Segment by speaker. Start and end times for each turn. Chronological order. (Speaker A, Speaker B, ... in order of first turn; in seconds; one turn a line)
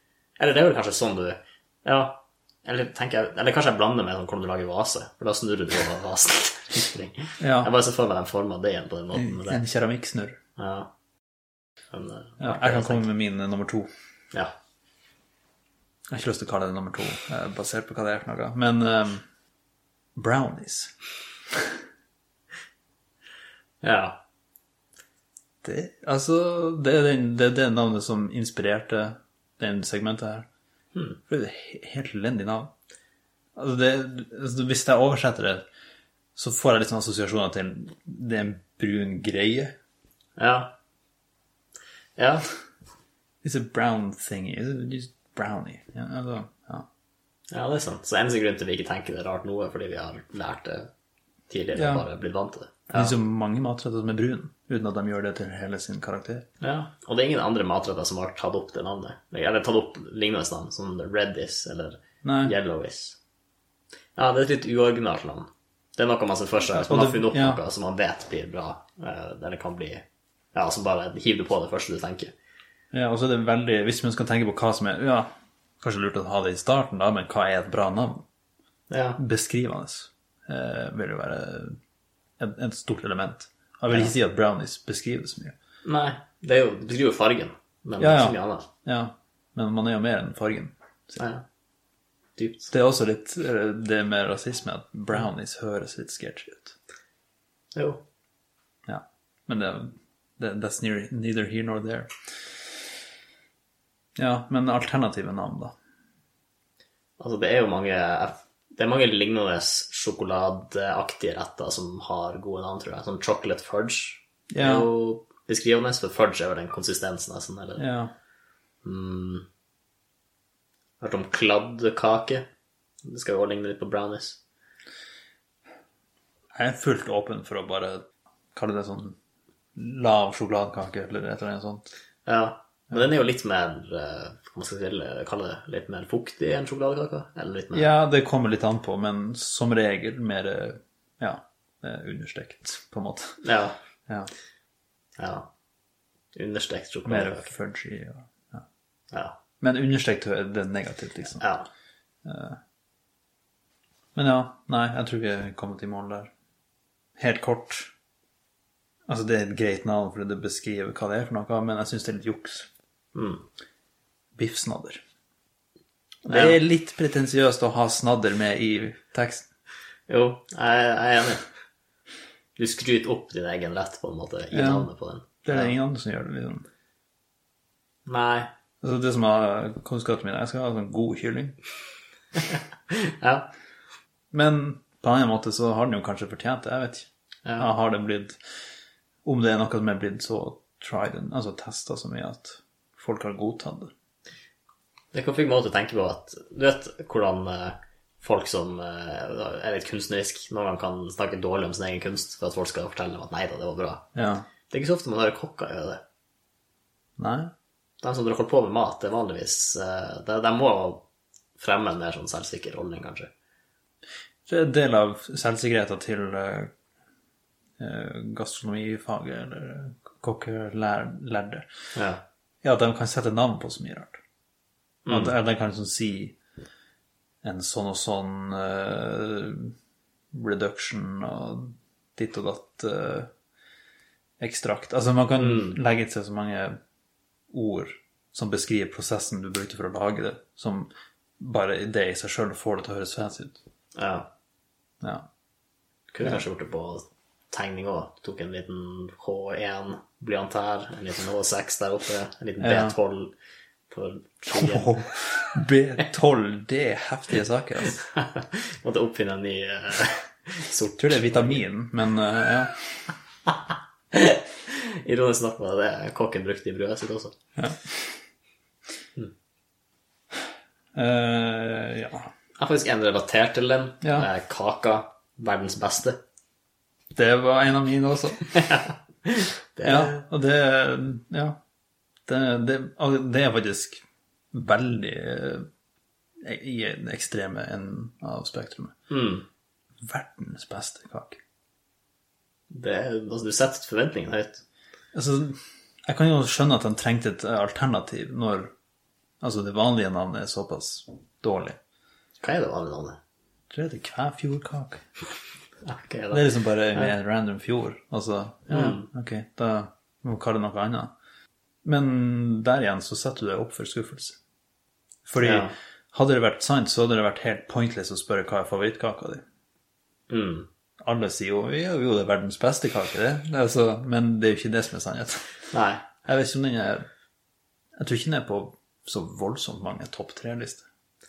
Speaker A: 0.4-9.6
Speaker B: 7.4-7.7
Speaker B: 9.1-10.4
Speaker A: 10.6-10.9
Speaker A: 11.9-13.1
Speaker B: 12.4-13.9
Speaker B: 16.1-19.3
Speaker B: 20.2-21.0
Speaker A: 23.8-24.2
Speaker B: 25.6-30.5
Speaker B: 31.3-32.7
Speaker B: 33.6-35.6
Speaker B: 36.4-39.7
Speaker A: 40.4-40.8
Speaker A: 42.2-42.5
Speaker B: 43.4-46.9
Speaker A: 47.5-50.9
Speaker A: 51.5-53.2
Speaker B: 51.8-52.1
Speaker B: 52.9-56.5
Speaker A: 56.6-63.2
Speaker B: 62.2-62.5
Speaker A: 64.2-72.3
Speaker B: 66.7-67.6
Speaker B: 72.9-75.3
Speaker B: 75.8-78.2
Speaker A: 78.9-79.2
Speaker B: 79.2-81.8
Speaker B: 82.4-85.5
Speaker A: 85.8-88.7
Speaker B: 88.0-91.2
Speaker A: 91.2-91.4
Speaker A: 92.4-92.7
Speaker B: 92.7-96.8
Speaker A: 97.7-98.0
Speaker B: 98.9-102.1
Speaker B: 104.2-105.7
Speaker A: 107.2-117.8
Speaker B: 114.5-114.9
Speaker B: 117.8-118.1
Speaker A: 118.8-119.5
Speaker A: 121.0-122.5
Speaker A: 123.0-124.4
Speaker B: 126.5-129.2
Speaker B: 129.8-131.9
Speaker A: 132.2-137.9
Speaker B: 137.7-143.4
Speaker A: 143.4-143.8
Speaker A: 145.2-145.5
Speaker A: 146.3-147.5
Speaker B: 147.1-148.7
Speaker A: 149.1-149.4
Speaker B: 149.6-151.5
Speaker A: 151.4-151.7
Speaker B: 152.2-152.6
Speaker B: 154.2-156.3
Speaker B: 157.2-157.9
Speaker B: 159.1-162.7
Speaker A: 163.2-163.4
Speaker B: 164.4-165.0
Speaker B: 166.2-169.5
Speaker A: 166.3-166.6
Speaker A: 170.1-171.5
Speaker A: 172.6-175.7
Speaker B: 174.5-176.7
Speaker A: 178.1-178.5
Speaker B: 178.8-181.6
Speaker A: 182.9-183.5
Speaker B: 184.3-188.4
Speaker A: 187.4-187.7
Speaker B: 189.2-193.9
Speaker A: 195.1-204.1
Speaker B: 204.1-204.5
Speaker A: 204.7-206.0
Speaker B: 207.2-207.5
Speaker A: 208.0-211.1
Speaker A: 211.6-213.3
Speaker B: 214.5-216.7
Speaker B: 217.8-221.7
Speaker A: 221.9-222.2
Speaker B: 222.6-224.2
Speaker A: 225.1-225.3
Speaker B: 225.1-226.4
Speaker B: 227.4-229.7
Speaker B: 230.3-233.3
Speaker B: 234.4-236.8
Speaker A: 235.4-235.8
Speaker B: 237.5-243.6
Speaker A: 243.9-244.3
Speaker B: 245.0-245.3
Speaker A: 246.1-253.3
Speaker B: 252.6-253.0
Speaker A: 253.9-255.0
Speaker B: 254.5-258.0
Speaker A: 258.0-261.6
Speaker B: 261.0-263.1
Speaker A: 264.1-267.4
Speaker B: 267.6-268.2
Speaker B: 270.9-272.3
Speaker A: 272.6-276.2
Speaker B: 274.0-274.3
Speaker B: 277.2-278.5
Speaker A: 278.5-280.2
Speaker B: 279.8-281.6
Speaker B: 282.3-285.7
Speaker B: 286.4-288.9
Speaker A: 289.1-289.5
Speaker B: 290.0-291.4
Speaker A: 292.7-294.6
Speaker B: 295.1-298.7
Speaker B: 299.4-301.8
Speaker A: 302.4-303.2
Speaker B: 303.7-305.0
Speaker A: 305.9-307.1
Speaker B: 306.3-311.1
Speaker A: 308.7-309.1
Speaker B: 311.8-314.4
Speaker B: 315.3-319.4
Speaker A: 315.4-315.7
Speaker A: 320.3-320.7
Speaker B: 321.0-325.6
Speaker A: 325.7-326.1
Speaker B: 326.2-327.1
Speaker B: 328.0-330.9